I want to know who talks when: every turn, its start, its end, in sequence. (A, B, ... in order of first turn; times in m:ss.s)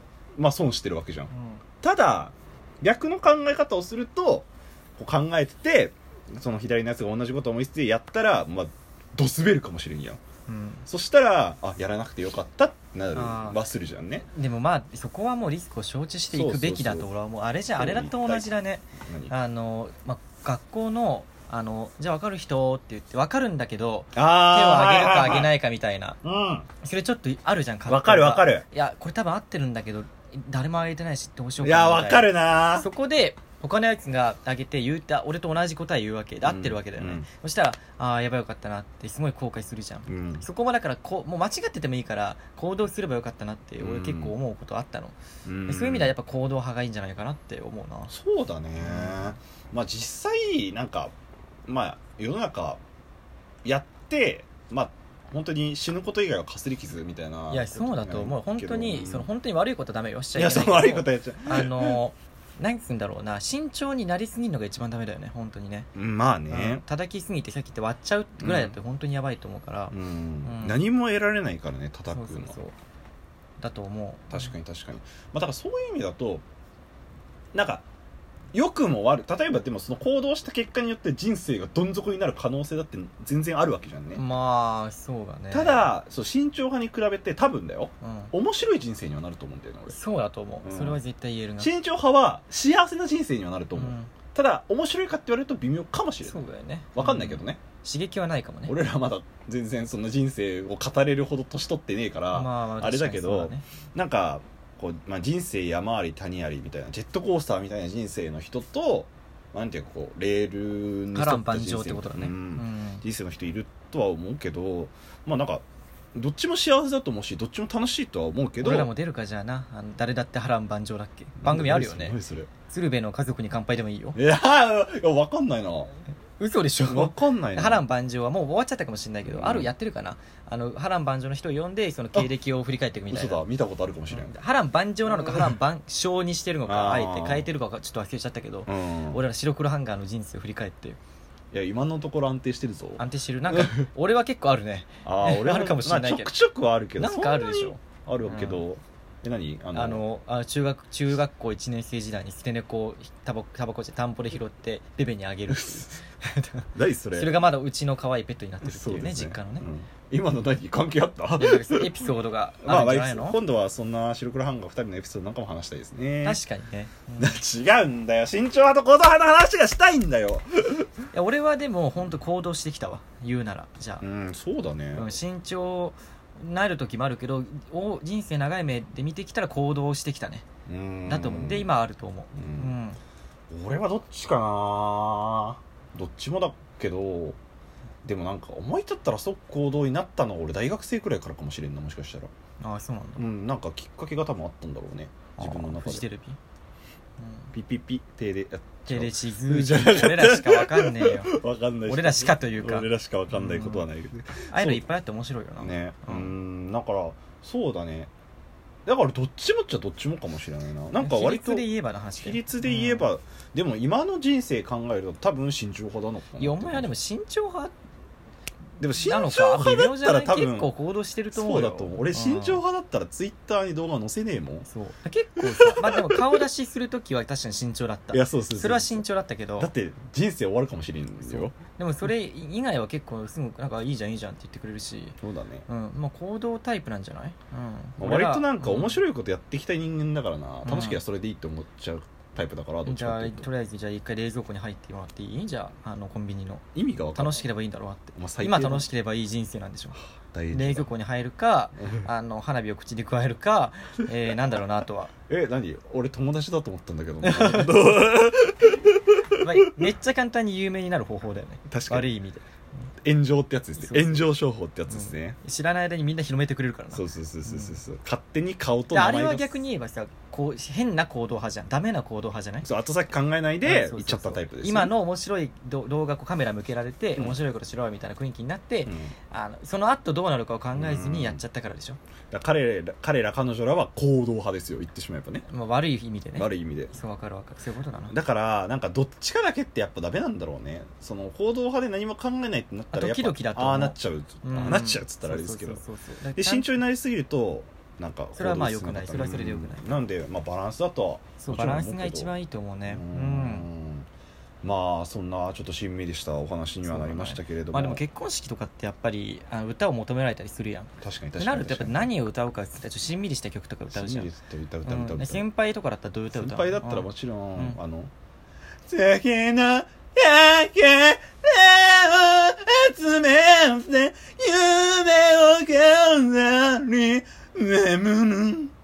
0:00.4-0:01.3 A
0:01.3-0:01.6 B
0:01.8-0:10.2 A
0:10.5-0:10.8 B
0:10.8-0:14.2 A
0:13.1-0:13.6 B
0:14.3-0:26.2 B
0:16.3-0:17.1 A
0:17.8-0:19.3 A
0:24.1-0:25.5 A
0:26.2-0:26.7 A
0:26.8-0:45.2 B
0:27.8-0:28.6 A
0:31.6-0:32.9 A
0:36.4-0:37.2 A
0:40.1-0:40.4 A
0:43.8-0:44.3 A
0:45.4-0:46.1 A
0:45.7-0:48.1 B
0:48.1-0:51.1 A
0:48.8-0:49.3 B
0:51.7-0:52.8 A
0:53.6-0:59.3 A
0:57.5-1:05.9 B
1:00.3-1:02.0 A
1:05.9-1:06.8 A
1:06.5-1:10.8 B
1:08.4-1:08.8 A
1:09.9-1:12.6 A
1:12.1-1:12.7 B
1:13.6-1:14.5 B
1:14.3-1:16.4 A
1:17.5-1:17.8 A
1:18.5-1:24.2 A
1:24.1-1:25.9 B
1:25.5-1:30.0 A
1:28.0-1:28.3 B
1:29.9-1:31.7 B
1:30.6-1:31.0 A
1:31.6-1:36.4 A
1:33.8-1:34.1 B
1:36.2-1:38.8 B
1:36.9-1:37.6 A
1:38.7-1:55.6 A
1:42.3-1:43.6 B
1:51.1-1:53.0 B
1:56.1-1:58.9 A
1:58.6-2:02.1 B
2:01.4-2:02.5 A
2:02.7-2:04.2 B
2:04.1-2:05.9 A
2:06.4-2:13.4 B
2:06.8-2:07.8 A
2:09.2-2:09.7 A
2:13.1-2:14.3 A
2:14.1-2:21.0 B
2:16.6-2:17.5 A
2:18.7-2:19.2 A
2:21.5-2:23.8 A
2:23.0-2:26.3 B
2:25.0-2:30.0 A
2:27.0-2:28.6 B
2:29.7-2:39.7 B
2:35.5-2:35.9 A
2:36.7-2:37.4 A
2:38.6-2:42.0 A
2:41.4-2:43.4 B
2:42.6-2:46.4 A
2:46.2-2:47.4 B
2:47.2-2:50.9 A
2:51.1-2:54.0 B
2:54.0-2:55.1 A
2:54.9-3:00.4 B
3:00.7-3:01.7 A
3:01.1-3:03.0 B
3:02.4-3:02.7 A
3:03.5-3:07.4 A
3:08.0-3:12.3 A
3:12.6-3:13.2 B
3:13.2-3:16.0 A
3:15.4-3:16.4 B
3:17.2-3:17.5 B
3:17.5-3:24.9 A
3:18.9-3:21.3 B
3:21.9-3:23.8 B
3:24.5-3:26.3 B
3:25.6-3:28.1 A
3:28.8-3:31.7 A
3:31.0-3:33.1 B
3:32.2-3:36.9 A
3:36.4-3:37.7 B
3:38.8-3:40.7 A
3:39.0-3:42.6 B
3:41.3-3:44.7 A
3:44.7-3:49.7 B
3:45.4-3:46.4 A
3:48.1-3:49.0 A
3:49.6-3:51.6 A
3:51.2-3:59.0 B
3:55.2-3:55.7 A
3:58.0-4:03.5 A
4:00.6-4:01.0 B
4:02.8-4:06.6 B
4:06.7-4:07.5 A
4:07.1-4:10.0 B
4:08.1-4:08.9 A
4:10.3-4:10.9 A
4:10.5-4:15.1 B
4:11.8-4:12.1 A
4:15.3-4:19.4 A
4:17.2-4:17.7 B
4:19.4-4:22.4 B
4:21.7-4:22.1 A
4:23.0-4:25.4 A
4:23.8-4:24.3 B
4:24.9-4:27.8 B
4:26.9-4:29.5 A
4:28.9-4:32.7 B
4:32.6-4:34.9 A
4:33.6-4:42.0 B
4:38.8-4:39.1 A
4:40.7-4:41.4 A
4:42.3-4:45.4 A
4:45.5-4:48.1 B
4:46.4-4:47.0 A
4:48.1-4:55.8 A
4:52.9-4:56.8 B
4:56.3-5:02.3 A
4:58.4-4:59.9 B
5:01.4-5:03.6 B
5:02.9-5:04.1 A
5:04.6-5:08.0 A
5:06.8-5:14.3 B
5:11.0-5:12.1 A
5:13.9-5:15.4 A
5:14.8-5:17.8 B
5:16.3-5:18.1 A
5:18.9-5:28.7 A